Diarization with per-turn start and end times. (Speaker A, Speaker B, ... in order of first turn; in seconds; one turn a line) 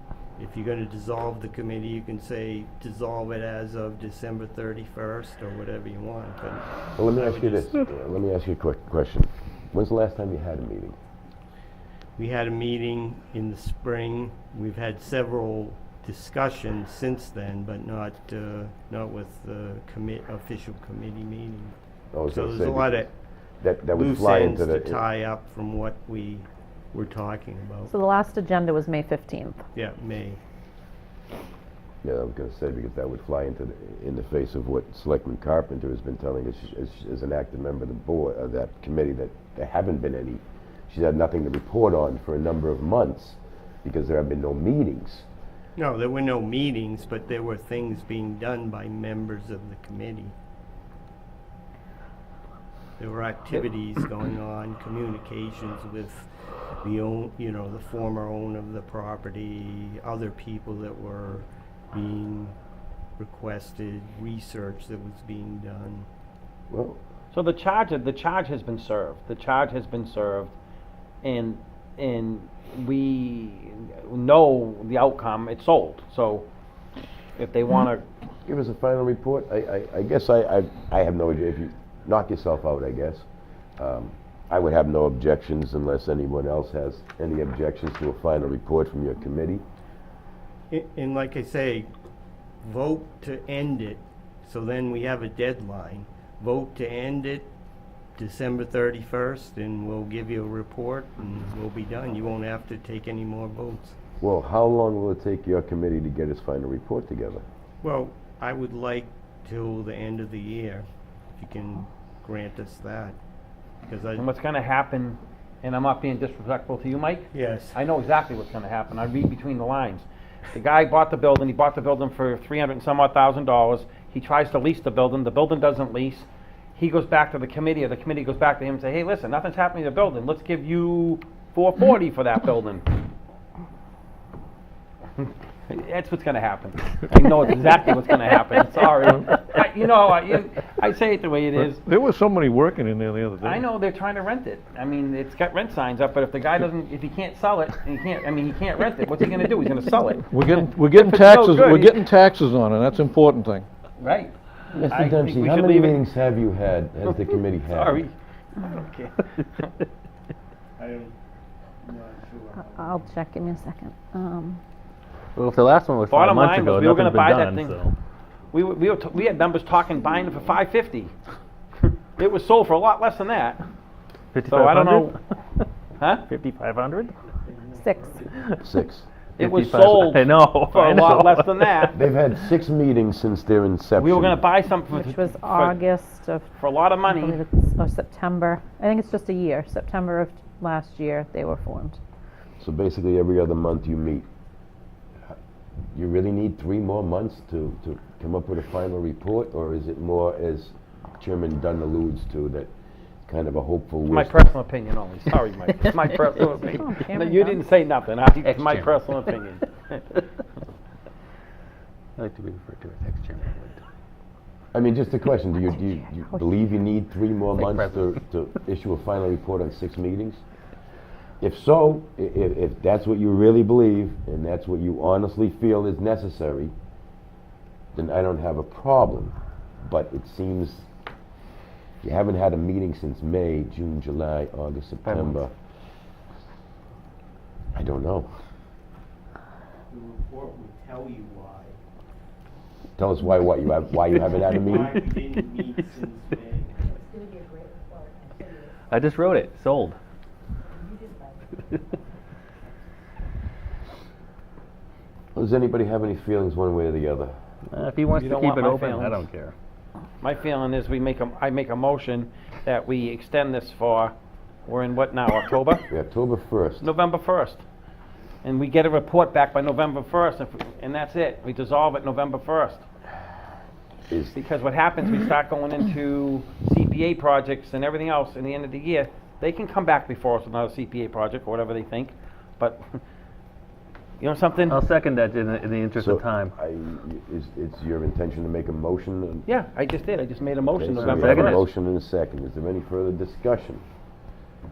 Speaker A: 0.4-7.8
Speaker B: 7.0-11.0
Speaker A: 12.2-21.8
Speaker B: 22.1-23.1
Speaker A: 22.3-23.1
Speaker B: 23.6-25.0
Speaker A: 23.9-27.9
Speaker C: 27.9-29.6
Speaker A: 29.7-30.4
Speaker B: 32.0-45.3
Speaker A: 45.8-50.4
Speaker A: 53.0-56.3
Speaker A: 56.8-62.5
Speaker A: 63.2-66.1
Speaker B: 66.7-67.0
Speaker D: 67.3-70.5
Speaker D: 71.2-76.5
Speaker D: 77.4-78.0
Speaker B: 78.5-83.3
Speaker B: 83.8-89.6
Speaker A: 90.7-91.9
Speaker A: 92.6-97.5
Speaker A: 98.2-104.0
Speaker B: 104.2-107.4
Speaker A: 107.8-110.9
Speaker A: 111.4-113.2
Speaker A: 113.8-114.2
Speaker D: 114.2-132.9
Speaker A: 117.3-117.8
Speaker D: 135.2-141.8
Speaker E: 141.8-143.6
Speaker D: 143.4-152.0
Speaker E: 150.3-153.7
Speaker D: 154.0-156.0
Speaker B: 154.7-158.0
Speaker D: 157.7-159.4
Speaker A: 160.8-161.2
Speaker A: 161.8-163.1
Speaker C: 162.6-164.6
Speaker F: 165.3-167.9
Speaker D: 166.1-167.8
Speaker D: 168.5-171.1
Speaker D: 172.2-173.6
Speaker F: 174.3-175.6
Speaker D: 174.5-175.1
Speaker D: 176.0-176.3
Speaker F: 176.3-177.2
Speaker A: 177.4-178.3
Speaker C: 177.8-178.2
Speaker F: 178.3-178.7
Speaker B: 178.6-179.1
Speaker F: 179.4-182.0
Speaker D: 179.4-182.0
Speaker B: 181.9-184.4
Speaker D: 184.0-185.8
Speaker C: 184.9-186.5
Speaker D: 186.6-187.4
Speaker C: 187.0-192.0
Speaker B: 192.6-194.3
Speaker B: 195.9-202.7
Speaker B: 203.2-204.5
Speaker D: 204.1-210.0
Speaker C: 206.6-207.7
Speaker F: 208.4-209.3
Speaker F: 212.2-213.8
Speaker B: 214.7-220.4
Speaker C: 215.7-216.5
Speaker F: 217.6-218.2
Speaker B: 221.4-226.7
Speaker B: 227.9-229.3
Speaker B: 229.8-230.9
Speaker B: 232.0-235.5
Speaker F: 235.0-235.4
Speaker B: 237.7-238.3
Speaker A: 239.9-241.8
Speaker B: 243.0-245.2
Speaker A: 244.4-246.8
Speaker F: 248.9-250.0
Speaker B: 255.3-257.3
Speaker F: 257.7-259.5
Speaker D: 258.1-259.2
Speaker D: 260.2-264.1
Speaker D: 264.7-265.9
Speaker B: 265.9-266.9
Speaker D: 266.8-267.6
Speaker D: 268.4-272.9
Speaker B: 274.1-274.4
Speaker D: 274.3-283.0
Speaker D: 284.2-284.8
Speaker F: 284.7-286.5
Speaker B: 286.0-289.4
Speaker D: 289.5-291.6
Speaker B: 290.6-293.8
Speaker F: 291.0-291.6